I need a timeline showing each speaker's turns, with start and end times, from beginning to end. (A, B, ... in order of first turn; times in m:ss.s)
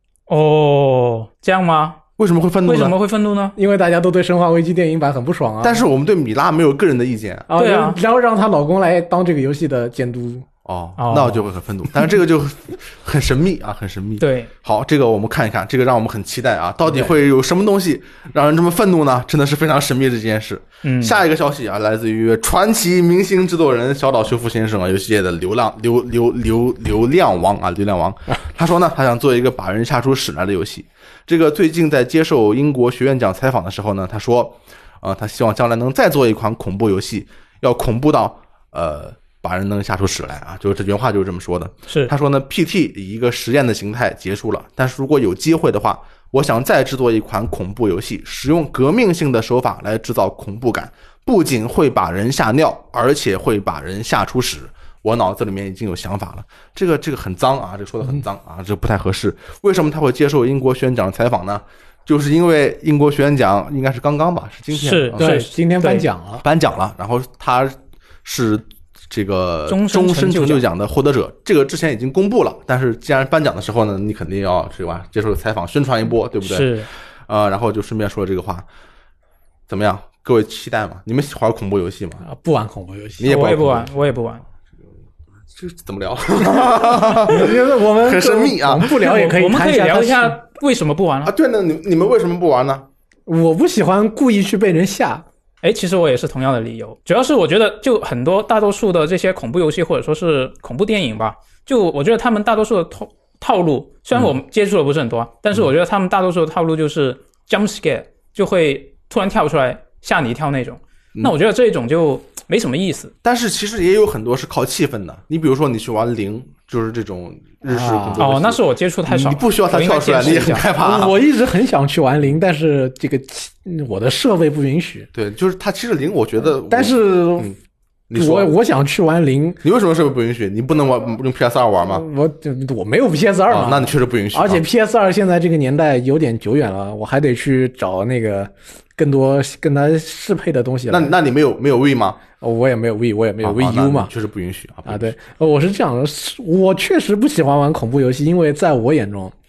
0:00.3-0:02.0 A
0:02.2-0:03.0 B
0:02.6-0:03.6 A
0:03.6-0:05.8 C
0:05.6-0:07.5 B
0:07.5-0:10.4 C
0:07.6-0:08.0 A
0:10.6-1:05.3 B
0:11.0-0:11.4 A
0:14.2-0:14.5 A
0:20.8-0:21.2 A
1:04.7-1:06.0 A
1:05.2-1:06.4 C
1:06.4-1:18.6 B
1:09.7-1:10.6 A
1:16.4-1:16.9 A
1:19.7-1:22.2 B
1:22.2-1:23.4 C
1:23.2-1:23.9 B
1:23.2-1:24.4 A
1:25.5-1:28.9 B
1:26.4-1:30.4 C
1:28.9-1:31.3 A
1:31.2-1:32.9 B
1:33.3-1:35.2 C
1:35.6-1:53.1 A
1:53.2-2:01.2 B
1:57.7-1:58.3 C
1:58.2-2:00.6 A
2:00.7-2:05.1 C
2:05.1-2:07.6 B
2:06.6-2:07.5 C
2:08.1-2:08.5 B
2:08.1-2:09.6 C
2:09.6-2:12.0 B
2:11.9-2:21.1 C
2:13.5-2:14.6 B
2:20.9-2:22.2 B
2:22.4-2:24.1 C
2:23.4-2:25.1 B
2:24.9-2:29.3 C